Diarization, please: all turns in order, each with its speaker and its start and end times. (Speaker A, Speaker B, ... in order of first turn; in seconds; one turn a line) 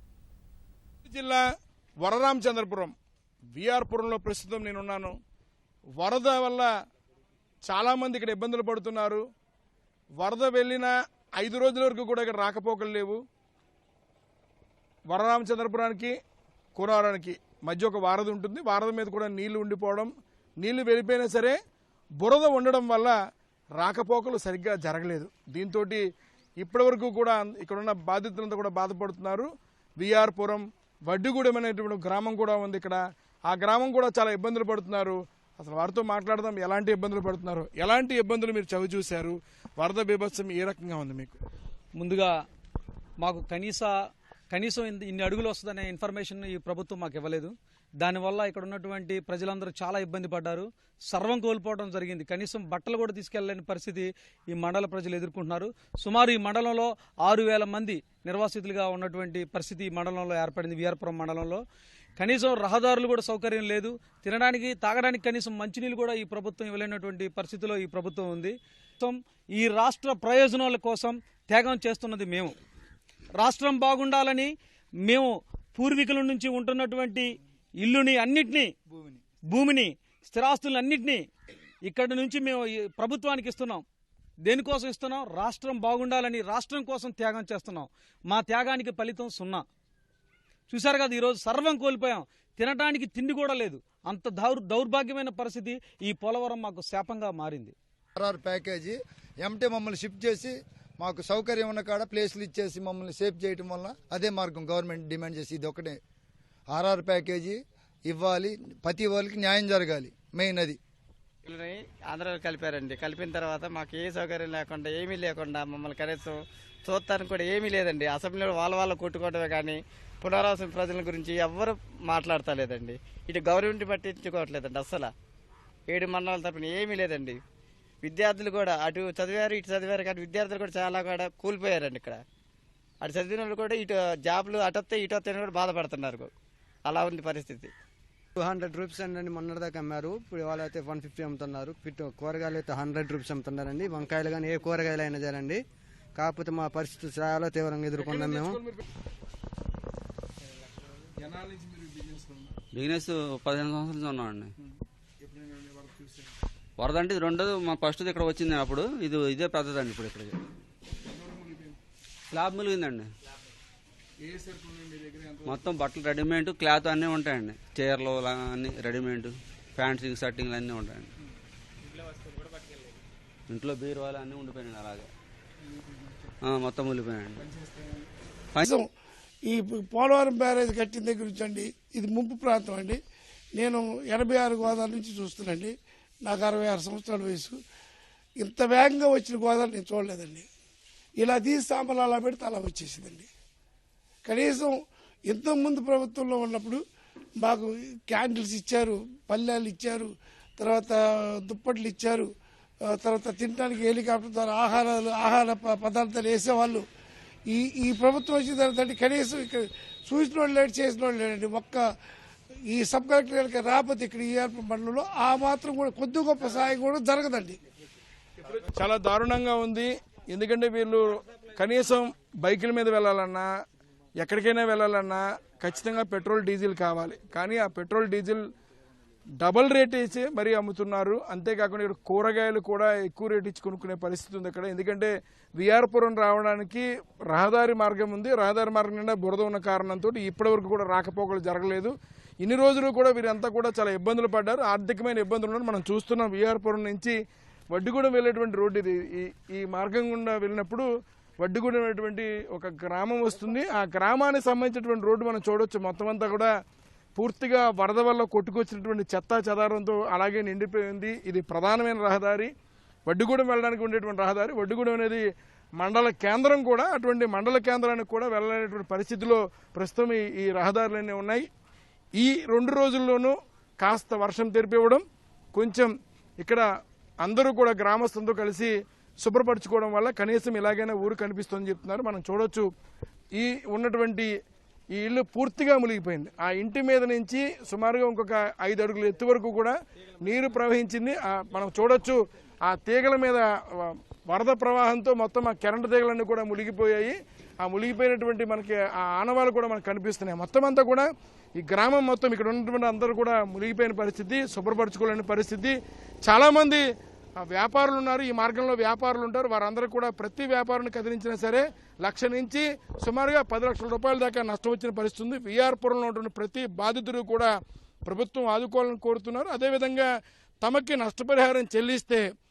Speaker A: 1.1-1.4
Speaker A: 2.0-2.9
Speaker A: 3.5-5.1
Speaker A: 6.0-6.7
Speaker A: 7.6-9.2
Speaker A: 10.2-13.2
Speaker A: 15.1-16.1
Speaker A: 16.8-20.1
Speaker A: 20.6-21.6
Speaker A: 22.2-23.1
Speaker A: 23.8-26.0
Speaker A: 26.6-41.4
Speaker B: 42.0-42.3
Speaker B: 43.2-43.9
Speaker B: 44.5-61.6
Speaker B: 62.2-72.5
Speaker B: 73.4-74.5
Speaker B: 75.1-78.7
Speaker C: 78.9-79.2
Speaker B: 79.5-81.2
Speaker B: 81.9-83.8
Speaker B: 84.5-89.6
Speaker B: 90.7-97.7
Speaker C: 98.2-106.0
Speaker C: 106.7-110.8
Speaker D: 111.5-125.1
Speaker D: 125.9-127.4
Speaker D: 128.0-132.2
Speaker D: 133.0-136.3
Speaker D: 136.9-137.7
Speaker E: 138.4-145.6
Speaker E: 146.2-148.6
Speaker A: 148.0-148.8
Speaker A: 151.2-152.6
Speaker F: 152.7-154.5
Speaker A: 155.3-156.3
Speaker F: 156.8-160.4
Speaker A: 161.1-161.8
Speaker F: 162.3-163.1
Speaker A: 164.2-165.6
Speaker F: 165.5-171.1
Speaker F: 173.5-175.1
Speaker F: 176.4-177.4
Speaker G: 179.5-183.0
Speaker G: 183.6-185.7
Speaker G: 186.2-187.6
Speaker G: 188.4-190.5
Speaker G: 191.2-193.3
Speaker G: 194.3-194.8
Speaker G: 195.3-196.8
Speaker G: 197.4-202.3
Speaker G: 202.9-206.8
Speaker G: 207.5-211.8
Speaker G: 212.7-217.6
Speaker A: 218.5-223.5
Speaker A: 224.2-228.4
Speaker A: 229.4-247.2
Speaker A: 247.7-250.9
Speaker A: 251.4-256.5
Speaker A: 257.2-262.5
Speaker A: 263.1-265.2
Speaker A: 265.8-271.4
Speaker A: 272.2-275.9
Speaker A: 277.2-282.7
Speaker A: 283.4-284.3
Speaker A: 284.9-301.1
Speaker A: 301.6-306.8
Speaker A: 307.4-317.5
Speaker A: 318.1-320.1
Speaker A: 320.6-322.2